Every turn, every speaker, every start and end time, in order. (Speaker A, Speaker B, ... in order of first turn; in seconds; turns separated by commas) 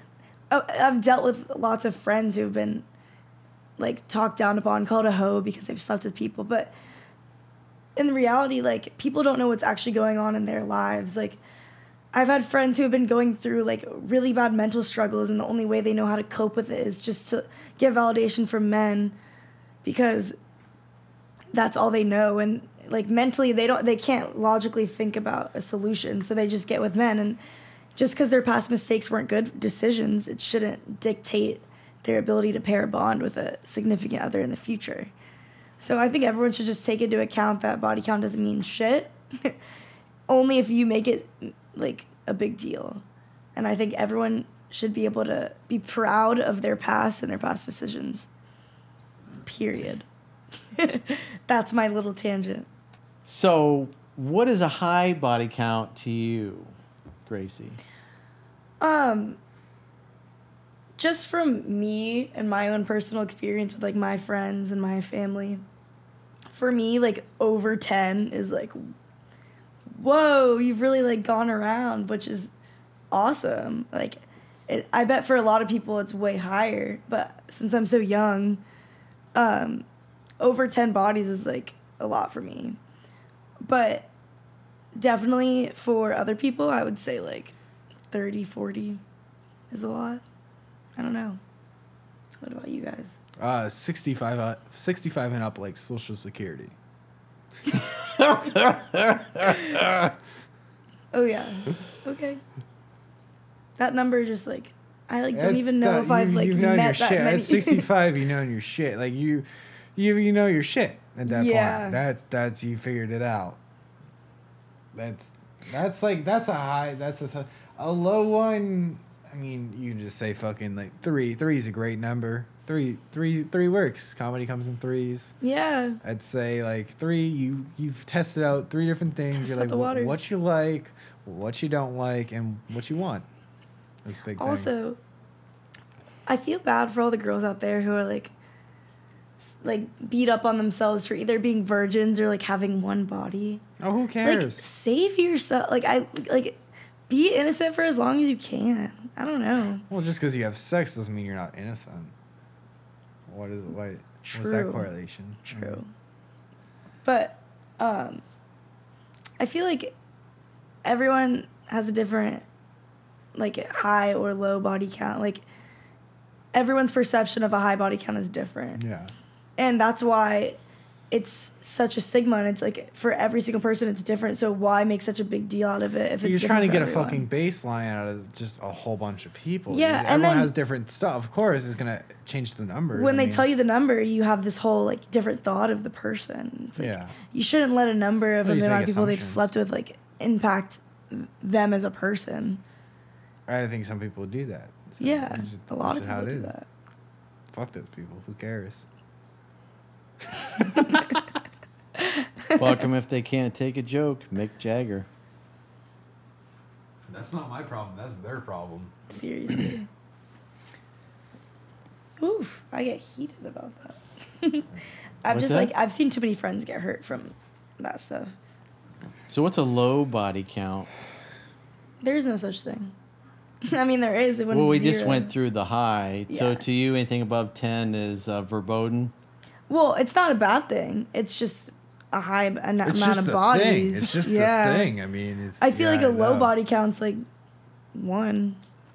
Speaker A: 0.5-2.9, Speaker A: 3.8-6.7, Speaker A: 8.0-11.4, Speaker A: 12.1-19.2, Speaker A: 19.8-20.4, Speaker A: 21.5-27.4, Speaker A: 28.0-35.1, Speaker A: 35.8-39.6, Speaker A: 40.3-43.0, Speaker A: 43.6-48.3, Speaker A: 49.4-50.1, Speaker A: 50.8-52.7, Speaker B: 53.2-56.7, Speaker B: 57.3-57.8, Speaker A: 58.8-59.4, Speaker A: 61.0-65.6, Speaker A: 66.5-68.8, Speaker A: 69.9-72.5, Speaker A: 73.1-78.6, Speaker A: 79.4-79.8, Speaker A: 80.4-82.8, Speaker A: 83.7-84.1, Speaker A: 85.0-87.5, Speaker A: 88.1-89.0, Speaker A: 89.7-90.2, Speaker A: 91.0-91.4, Speaker A: 92.4-93.2, Speaker C: 93.4-96.8, Speaker B: 98.2-99.9, Speaker A: 101.1-102.4, Speaker A: 103.8-107.9, Speaker C: 105.3-113.6, Speaker A: 111.3-112.0, Speaker C: 114.9-125.3, Speaker A: 125.4-126.0, Speaker C: 126.0-133.3, Speaker A: 129.3-130.3, Speaker C: 134.0-134.7, Speaker A: 134.4-135.0, Speaker A: 136.3-138.3, Speaker A: 139.6-143.6, Speaker C: 143.8-144.7, Speaker A: 144.2-146.6, Speaker A: 147.1-149.8, Speaker C: 149.9-152.1, Speaker C: 153.3-155.8, Speaker A: 154.3-154.9, Speaker A: 155.5-155.9, Speaker A: 157.1-158.2, Speaker A: 159.4-159.9, Speaker A: 160.8-162.5, Speaker A: 163.3-165.4, Speaker A: 166.5-168.8, Speaker C: 168.8-169.1, Speaker A: 169.6-170.6, Speaker A: 171.1-177.3, Speaker C: 176.2-183.5, Speaker A: 179.7-180.5, Speaker A: 182.9-192.6, Speaker C: 186.8-187.2, Speaker C: 188.4-189.5, Speaker C: 193.5-196.5, Speaker A: 195.0-196.7, Speaker C: 197.5-198.9, Speaker A: 202.0-202.7, Speaker B: 202.6-205.1, Speaker C: 207.1-209.1, Speaker A: 209.1-209.9, Speaker A: 212.2-214.7, Speaker A: 215.2-218.3, Speaker B: 215.3-215.7, Speaker B: 219.3-220.9, Speaker A: 222.0-222.9, Speaker A: 223.7-225.3, Speaker B: 224.5-229.1, Speaker A: 226.3-226.7, Speaker A: 229.7-234.9, Speaker C: 232.8-236.5, Speaker A: 235.6-237.2, Speaker A: 237.9-238.6